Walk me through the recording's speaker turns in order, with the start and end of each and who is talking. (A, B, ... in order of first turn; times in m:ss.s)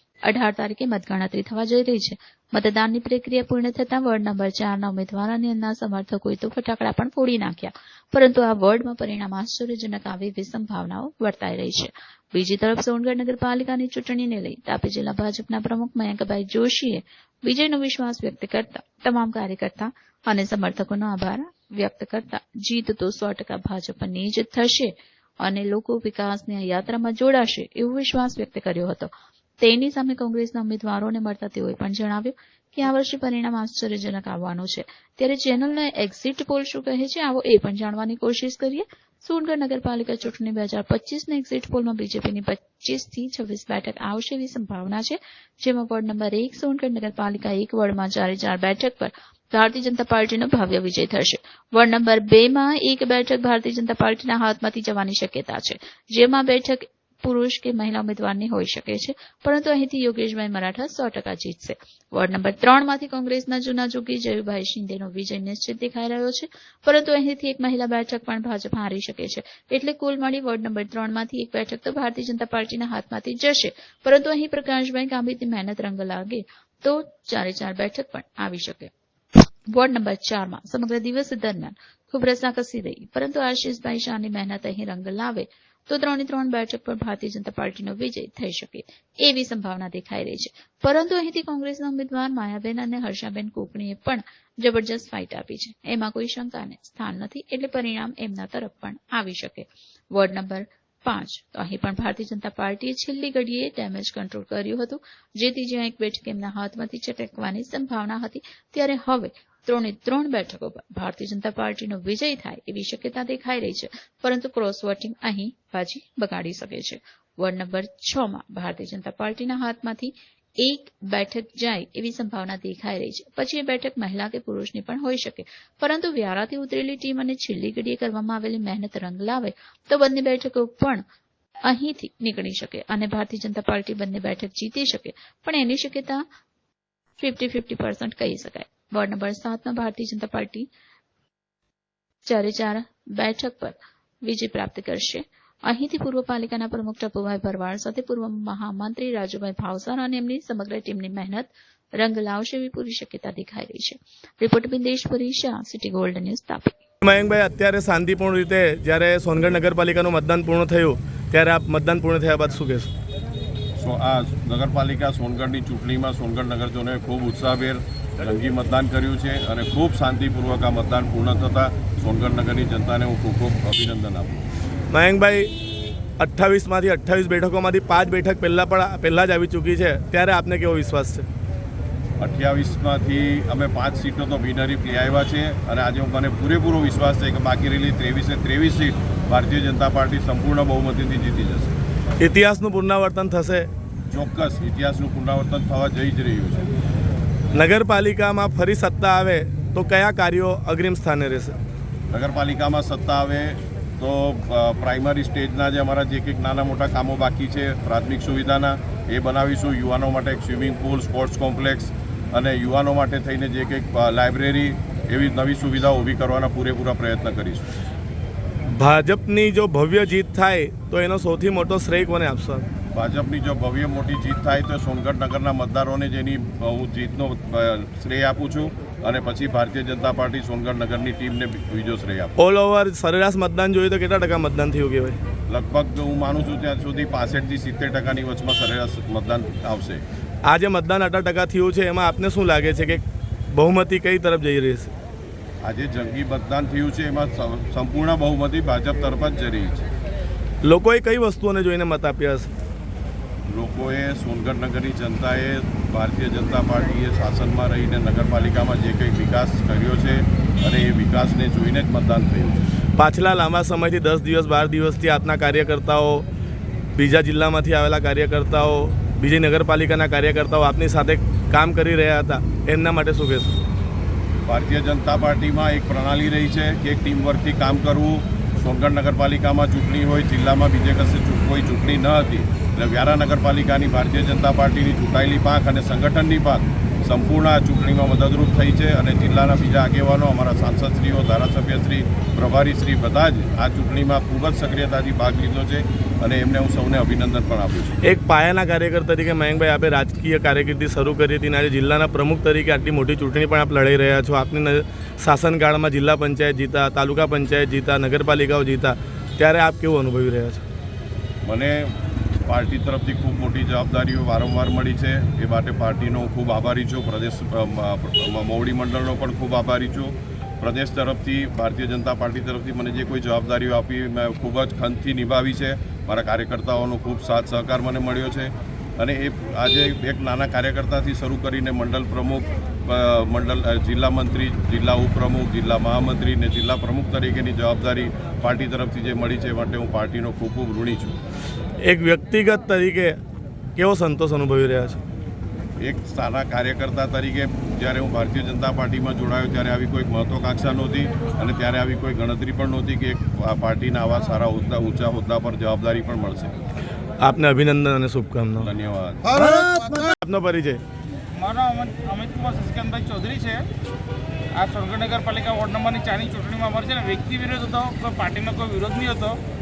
0:00.2-1:18.9 A
1:19.7-2:11.0 A
2:11.6-2:16.2 A
2:17.2-2:20.7 A
2:22.2-2:36.8 A
2:37.0-2:42.9 B
2:43.8-2:54.5 C
2:54.9-2:55.5 B
2:56.2-3:01.2 B
3:02.2-3:11.7 C
3:12.2-3:13.7 B
3:14.1-3:16.7 C
3:17.5-3:21.6 B
3:22.1-3:37.7 C
3:38.7-3:42.6 B
3:42.9-3:52.3 C
3:52.4-3:55.2 B
3:55.5-4:00.0 C
4:00.4-4:04.9 B
4:05.6-4:09.9 C
4:10.6-4:12.5 B
4:13.5-4:22.6 C
4:23.0-4:26.3 B
4:26.9-4:33.6 B
4:34.4-4:58.0 C
4:58.0-5:10.6 B
5:11.4-5:11.9 C
5:12.4-5:41.2 C
5:41.8-5:43.2 B
5:43.8-5:45.0 B
5:45.8-5:56.6 C
5:57.2-5:58.7 B
5:58.6-5:59.2 C
5:59.4-6:00.8 B
6:01.3-6:03.6 D
6:04.5-6:09.4 D